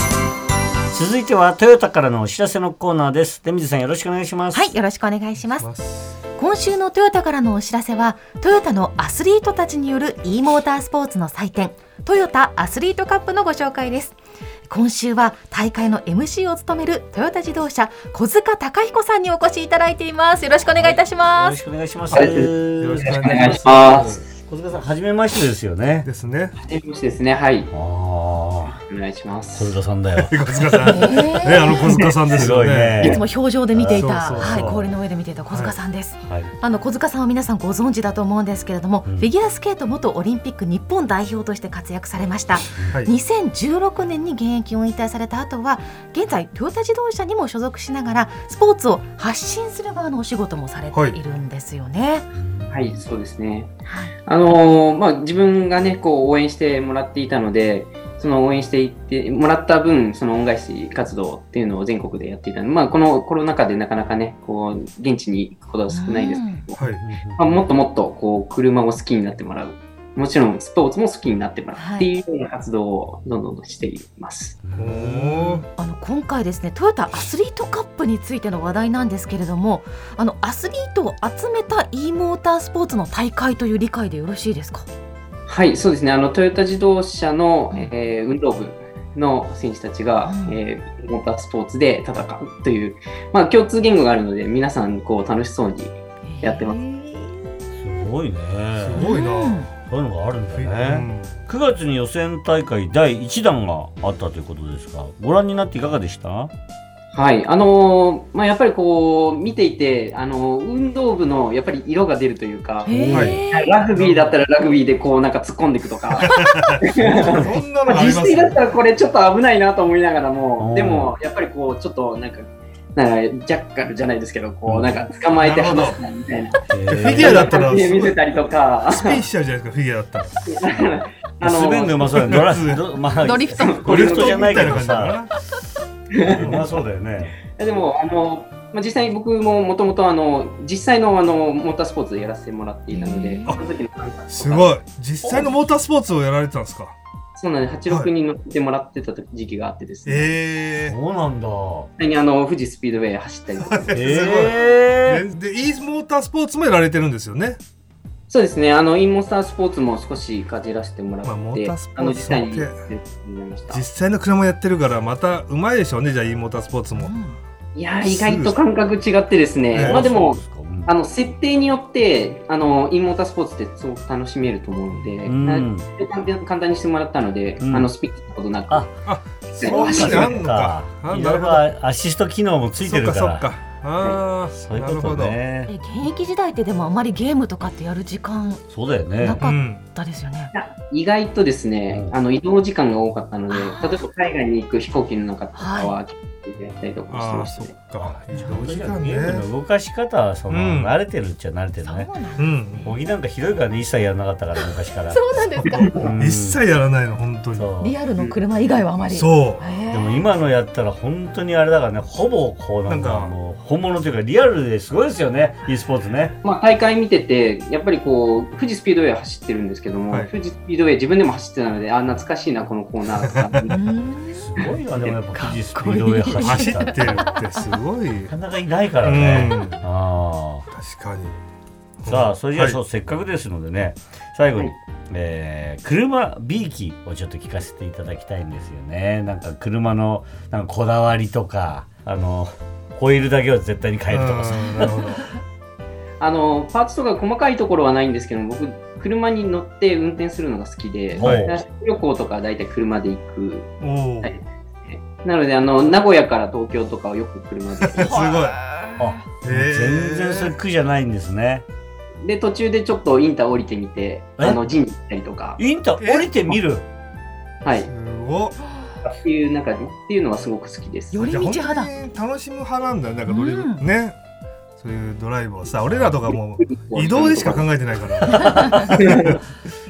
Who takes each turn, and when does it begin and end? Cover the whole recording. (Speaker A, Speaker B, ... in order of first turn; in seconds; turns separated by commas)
Speaker A: 0.9-4.8, Speaker B: 4.5-5.7, Speaker C: 5.5-6.2, Speaker B: 6.3-14.2, Speaker B: 14.7-21.6, Speaker A: 20.6-26.1, Speaker D: 22.1-22.5, Speaker C: 22.8-24.1, Speaker D: 23.1-24.1, Speaker C: 26.0-26.6, Speaker D: 26.6-27.7, Speaker A: 27.7-28.7, Speaker D: 28.9-29.7, Speaker A: 29.5-31.0, Speaker C: 30.2-33.0, Speaker B: 30.9-32.1, Speaker A: 32.3-34.9, Speaker B: 33.0-52.3, Speaker C: 33.9-34.8, Speaker C: 35.5-35.8, Speaker A: 36.2-36.5, Speaker C: 50.9-51.2, Speaker A: 52.4-53.0, Speaker D: 52.7-53.7, Speaker B: 53.9-54.1, Speaker D: 54.3-66.8, Speaker B: 65.9-66.7, Speaker C: 66.8-67.0, Speaker A: 66.9-67.6, Speaker D: 67.4-74.6, Speaker B: 71.8-72.1, Speaker A: 74.6-75.7, Speaker C: 74.8-75.7, Speaker B: 75.8-84.9, Speaker D: 85.5-96.8, Speaker B: 90.2-90.6, Speaker B: 96.2-96.7, Speaker A: 96.8-99.2, Speaker C: 98.8-99.6, Speaker B: 99.0-99.7, Speaker A: 99.9-106.5, Speaker C: 100.5-101.4, Speaker D: 107.1-129.2, Speaker B: 112.9-113.7, Speaker A: 112.9-113.4, Speaker C: 113.9-114.4, Speaker C: 116.3-118.7, Speaker A: 120.6-121.1, Speaker C: 125.4-126.0, Speaker A: 126.7-127.5, Speaker C: 126.8-128.2, Speaker C: 128.9-130.4, Speaker D: 130.5-132.3, Speaker A: 131.4-135.2, Speaker C: 132.2-132.8, Speaker B: 133.2-133.8, Speaker D: 133.6-134.8, Speaker C: 133.8-135.3, Speaker D: 136.1-136.7, Speaker A: 136.3-137.4, Speaker C: 136.4-136.6, Speaker D: 137.5-144.8, Speaker B: 142.9-143.6, Speaker C: 144.3-146.9, Speaker A: 145.2-145.6, Speaker D: 147.4-150.3, Speaker C: 150.1-151.0, Speaker A: 150.8-151.9, Speaker D: 152.0-154.6, Speaker C: 153.7-157.6, Speaker A: 153.9-155.2, Speaker D: 158.3-163.8, Speaker C: 161.2-162.8, Speaker C: 163.7-167.1, Speaker B: 166.9-167.4, Speaker D: 167.8-178.9, Speaker C: 168.0-168.6, Speaker C: 169.7-170.1, Speaker A: 169.8-170.9, Speaker A: 175.2-175.9, Speaker A: 177.6-177.9, Speaker C: 179.1-181.7, Speaker D: 179.6-180.4, Speaker A: 179.6-183.5, Speaker C: 182.8-185.4, Speaker A: 184.6-185.7, Speaker B: 185.7-188.6, Speaker A: 188.7-189.4, Speaker B: 189.2-190.5, Speaker C: 189.4-189.8, Speaker D: 190.5-197.8, Speaker A: 191.9-192.2, Speaker B: 193.5-194.1, Speaker B: 195.6-196.0, Speaker C: 197.1-199.5, Speaker A: 198.0-202.2, Speaker C: 200.5-200.9, Speaker B: 201.8-202.9, Speaker C: 202.4-202.9, Speaker A: 202.7-206.6, Speaker B: 205.1-206.0, Speaker C: 206.0-207.7, Speaker A: 207.6-208.0, Speaker B: 207.8-210.2, Speaker C: 209.1-209.8, Speaker A: 209.9-216.4, Speaker C: 212.9-213.3, Speaker D: 216.4-223.8, Speaker B: 223.7-224.5, Speaker A: 224.3-227.2, Speaker D: 224.6-225.2, Speaker B: 225.4-227.3, Speaker C: 226.4-228.3, Speaker A: 228.3-230.7, Speaker C: 229.0-229.8, Speaker C: 230.7-231.4, Speaker C: 232.0-232.8, Speaker A: 232.1-245.1, Speaker C: 244.1-245.3, Speaker D: 246.2-258.4, Speaker C: 251.2-251.6, Speaker A: 251.2-251.6, Speaker C: 253.8-254.3, Speaker C: 257.9-258.6, Speaker A: 258.0-261.6, Speaker C: 259.4-260.6, Speaker D: 262.2-265.6, Speaker A: 265.6-266.9, Speaker C: 266.0-266.6, Speaker D: 267.6-267.9, Speaker C: 267.9-268.6, Speaker D: 269.0-271.3, Speaker B: 271.1-271.9, Speaker C: 271.3-274.2, Speaker B: 273.3-273.8, Speaker C: 274.8-279.4, Speaker D: 276.3-277.7, Speaker A: 278.4-278.8, Speaker D: 278.8-279.4